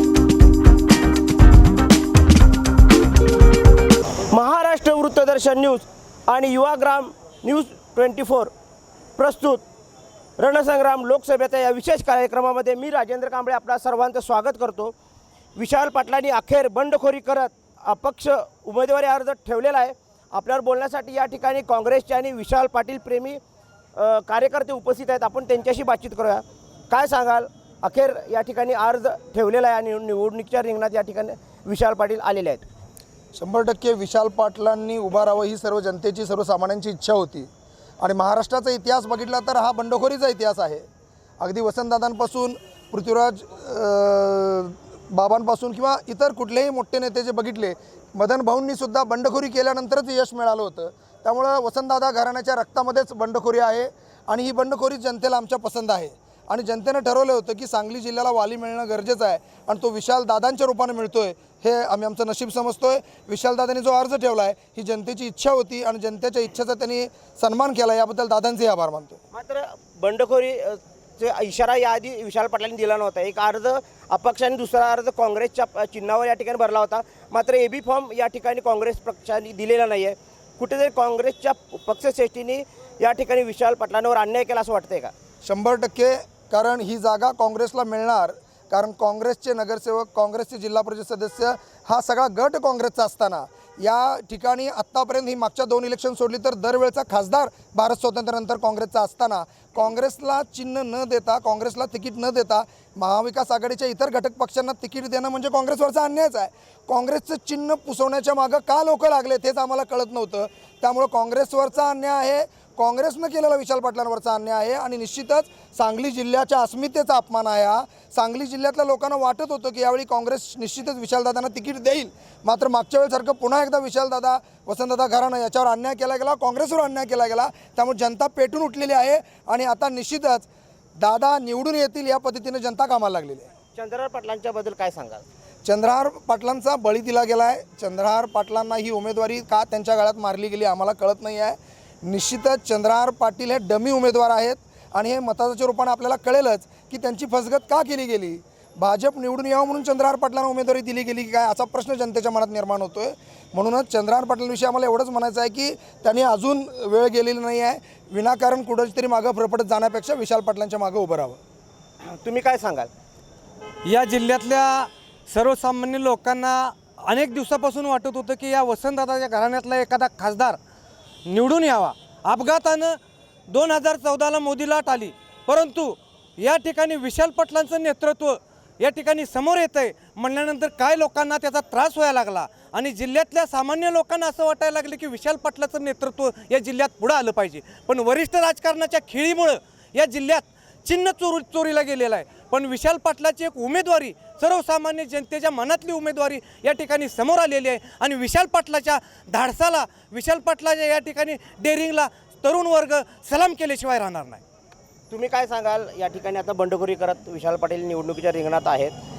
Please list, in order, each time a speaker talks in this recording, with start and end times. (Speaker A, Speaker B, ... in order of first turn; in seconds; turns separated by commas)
Speaker A: 4.3-8.5, Speaker A: 9.2-9.6, Speaker A: 10.4-14.9, Speaker A: 15.6-23.4, Speaker A: 23.9-32.7, Speaker B: 33.3-37.5, Speaker B: 38.0-40.8, Speaker B: 41.4-69.2, Speaker A: 69.3-85.1, Speaker B: 85.4-130.5, Speaker B: 131.0-133.5, Speaker A: 133.8-135.2, Speaker B: 135.7-161.4, Speaker A: 162.0-162.9, Speaker C: 163.9-170.6, Speaker C: 171.2-173.0, Speaker C: 173.5-204.4, Speaker A: 205.1-208.9